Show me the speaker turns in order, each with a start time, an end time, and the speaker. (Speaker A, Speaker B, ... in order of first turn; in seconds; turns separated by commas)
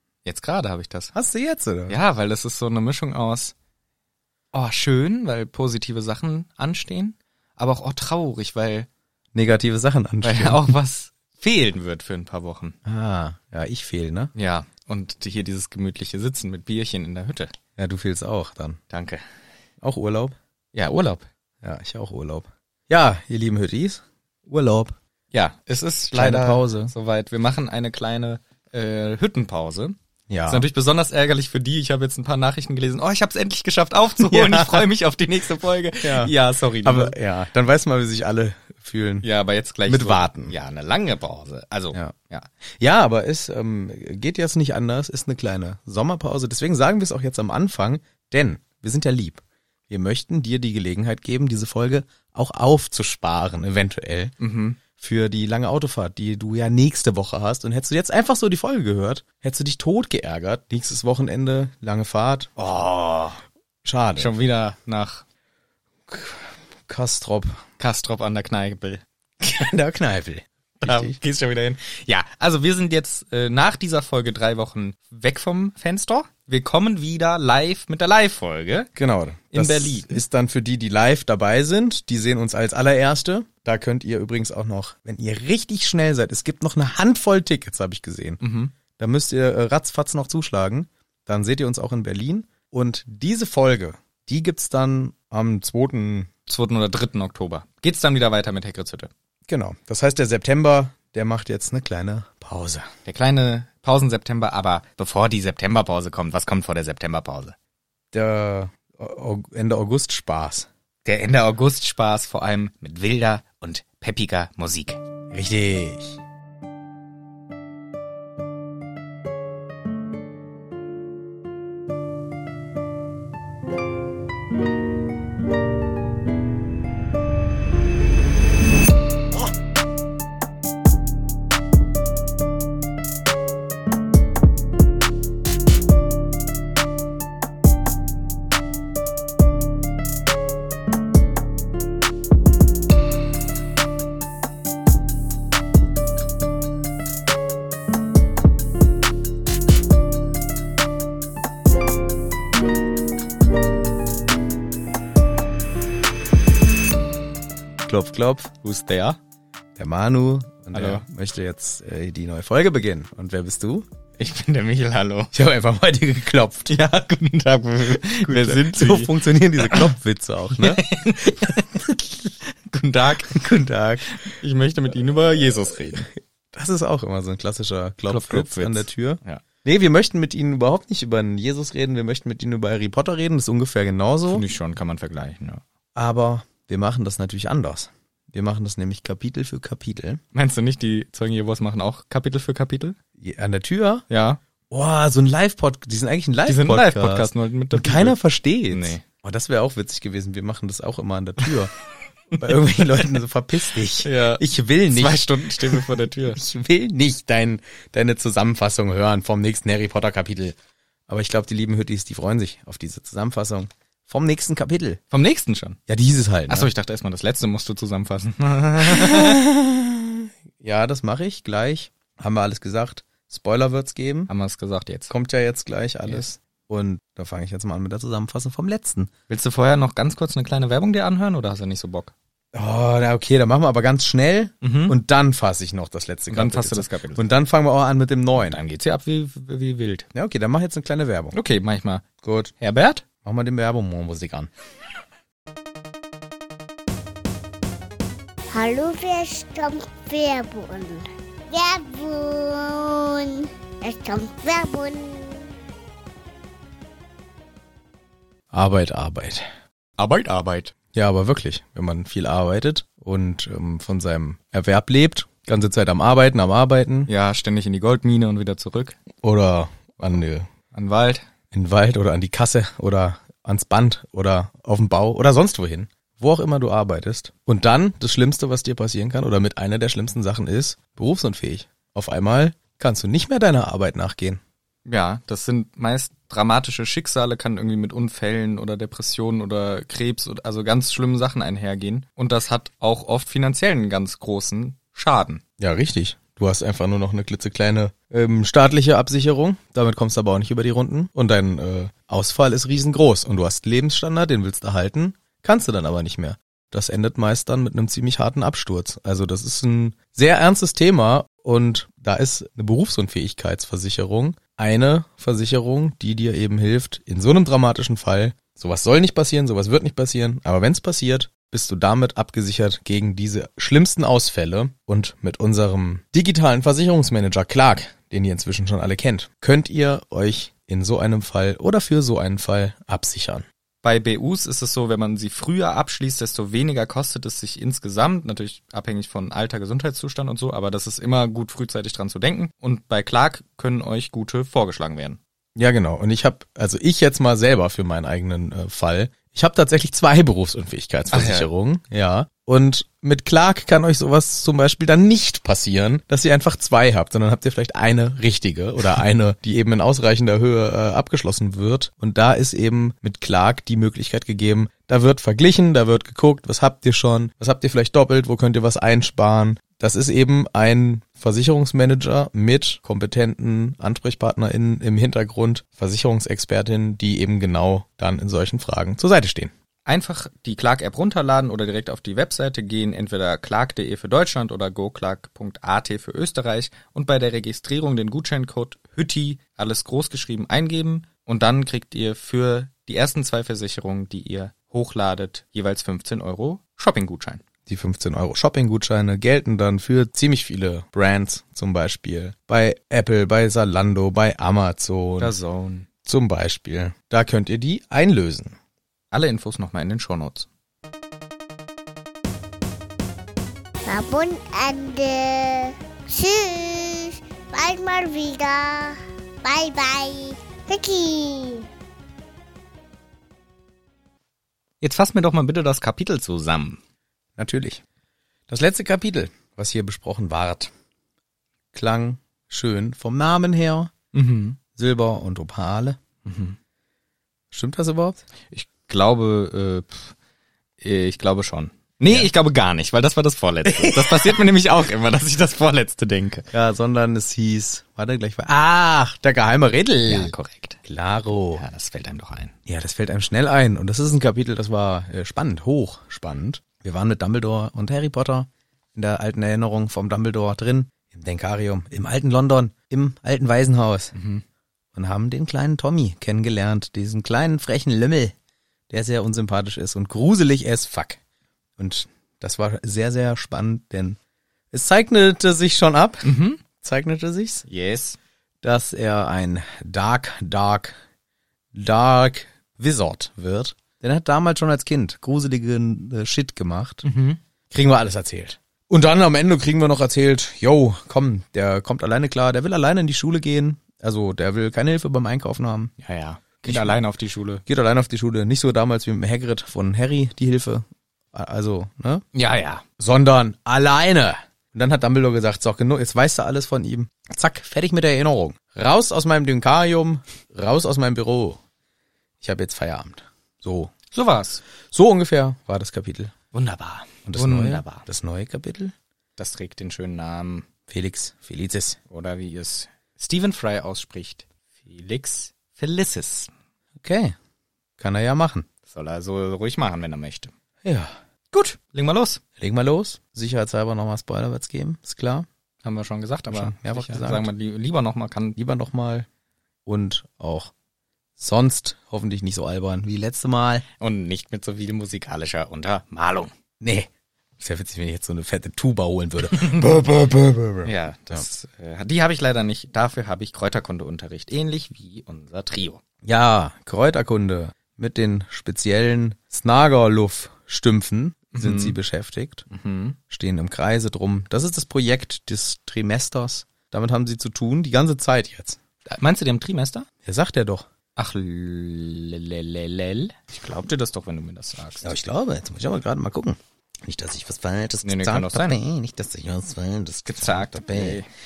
Speaker A: 0.2-1.1, Speaker B: 1.1-2.0, Speaker A: 1.9-3.5, Speaker A: 4.5-8.9, Speaker B: 9.3-10.7, Speaker A: 10.2-12.8, Speaker B: 12.8-14.3, Speaker A: 14.3-17.5, Speaker B: 17.8-18.8, Speaker A: 18.9-19.2, Speaker B: 19.8-20.4, Speaker A: 20.7-21.3, Speaker B: 21.6-25.0, Speaker A: 25.3-29.9, Speaker B: 26.1-26.9, Speaker B: 30.3-30.7, Speaker A: 30.5-37.2, Speaker B: 34.2-34.9, Speaker B: 36.0-39.3, Speaker A: 39.2-42.5, Speaker B: 39.9-40.5, Speaker B: 42.8-54.3, Speaker A: 54.4-54.8, Speaker B: 55.0-62.6, Speaker A: 62.6-63.4, Speaker B: 63.8-64.3, Speaker A: 64.2-65.2, Speaker B: 66.1-67.6, Speaker A: 67.8-69.0, Speaker B: 69.4-71.2, Speaker A: 70.8-78.9, Speaker B: 79.0-96.3, Speaker A: 79.5-80.2, Speaker A: 88.4-88.8, Speaker A: 96.5-99.1, Speaker B: 99.5-102.9, Speaker A: 103.1-107.5, Speaker B: 108.1-110.7, Speaker A: 111.0-115.0, Speaker B: 115.3-116.2, Speaker B: 157.8-158.5, Speaker A: 158.6-159.2, Speaker B: 159.8-163.9, Speaker A: 160.7-161.1, Speaker A: 164.2-165.3, Speaker B: 165.3-166.8, Speaker A: 166.7-169.9, Speaker B: 168.0-172.0, Speaker A: 170.5-173.4, Speaker B: 173.2-174.1, Speaker A: 174.1-176.1, Speaker B: 176.5-184.4, Speaker A: 178.1-179.4, Speaker A: 184.3-185.6, Speaker B: 185.9-190.2, Speaker A: 190.3-193.0, Speaker B: 193.2-194.1, Speaker A: 194.1-194.4, Speaker B: 194.7-201.7, Speaker A: 196.5-198.2, Speaker A: 198.7-199.0, Speaker B: 202.3-210.6, Speaker A: 203.9-206.4, Speaker B: 211.1-215.0, Speaker A: 215.1-215.8, Speaker B: 215.9-216.7, Speaker A: 216.5-219.4, Speaker B: 218.8-224.3, Speaker A: 224.3-225.1, Speaker B: 225.1-229.1, Speaker A: 229.3-232.1, Speaker B: 232.5-238.6, Speaker A: 234.6-235.0, Speaker A: 236.3-237.3, Speaker A: 238.4-240.1, Speaker B: 240.1-241.4, Speaker A: 241.3-242.1, Speaker B: 242.2-242.5, Speaker A: 242.6-243.0, Speaker B: 243.2-244.5, Speaker C: 248.5-255.5, Speaker B: 258.5-259.5, Speaker A: 260.0-260.8, Speaker B: 260.9-267.1, Speaker A: 267.1-269.0, Speaker B: 269.2-270.5, Speaker A: 270.7-271.3, Speaker B: 271.5-284.4, Speaker A: 284.9-295.4, Speaker B: 295.6-333.5, Speaker A: 333.8-345.2, Speaker B: 345.6-379.5, Speaker A: 351.1-351.5, Speaker A: 379.9-397.4, Speaker B: 397.7-405.3, Speaker A: 405.2-405.9, Speaker B: 406.1-408.6, Speaker A: 409.1-410.5, Speaker C: 413.9-421.7, Speaker A: 424.8-426.8, Speaker B: 427.4-427.8, Speaker B: 428.5-430.7, Speaker B: 431.7-433.9, Speaker A: 434.1-434.6, Speaker B: 434.8-436.0, Speaker A: 436.2-436.6, Speaker B: 437.5-438.2, Speaker A: 438.5-440.1, Speaker A: 440.8-446.5, Speaker B: 443.7-444.4, Speaker B: 446.5-450.3, Speaker A: 450.1-450.8, Speaker B: 450.9-451.6, Speaker A: 451.6-452.6, Speaker B: 452.7-464.1, Speaker A: 464.1-464.4, Speaker B: 464.9-468.4, Speaker B: 468.9-471.2, Speaker B: 471.8-474.2, Speaker B: 474.7-477.6, Speaker A: 476.2-476.6, Speaker A: 477.7-478.2, Speaker B: 478.6-481.0, Speaker B: 481.7-487.1, Speaker A: 487.1-487.4, Speaker B: 487.7-495.9, Speaker A: 496.0-497.6, Speaker B: 496.7-497.0, Speaker B: 497.7-502.2, Speaker A: 502.3-502.8, Speaker B: 503.0-511.6, Speaker B: 512.4-514.0, Speaker A: 514.1-514.6, Speaker B: 514.9-516.3, Speaker A: 516.5-518.0, Speaker B: 517.3-518.9, Speaker A: 519.4-520.7, Speaker B: 520.9-522.0, Speaker A: 522.1-526.5, Speaker B: 527.0-527.4, Speaker B: 528.0-528.7, Speaker A: 528.9-530.5, Speaker B: 530.8-531.1, Speaker A: 531.5-532.4, Speaker B: 532.6-535.5, Speaker A: 535.8-538.6, Speaker B: 536.5-537.5, Speaker B: 538.6-539.3, Speaker B: 539.9-540.7, Speaker B: 541.4-543.8, Speaker A: 544.0-546.5, Speaker B: 546.8-547.1, Speaker B: 547.6-551.4, Speaker A: 549.5-549.8, Speaker A: 550.8-556.0, Speaker B: 556.2-562.7, Speaker A: 561.5-562.0, Speaker A: 562.7-563.2, Speaker B: 563.3-568.8, Speaker A: 569.1-570.1, Speaker B: 570.2-570.9, Speaker A: 571.2-575.1, Speaker B: 575.0-581.2, Speaker A: 578.0-578.8, Speaker A: 580.3-581.3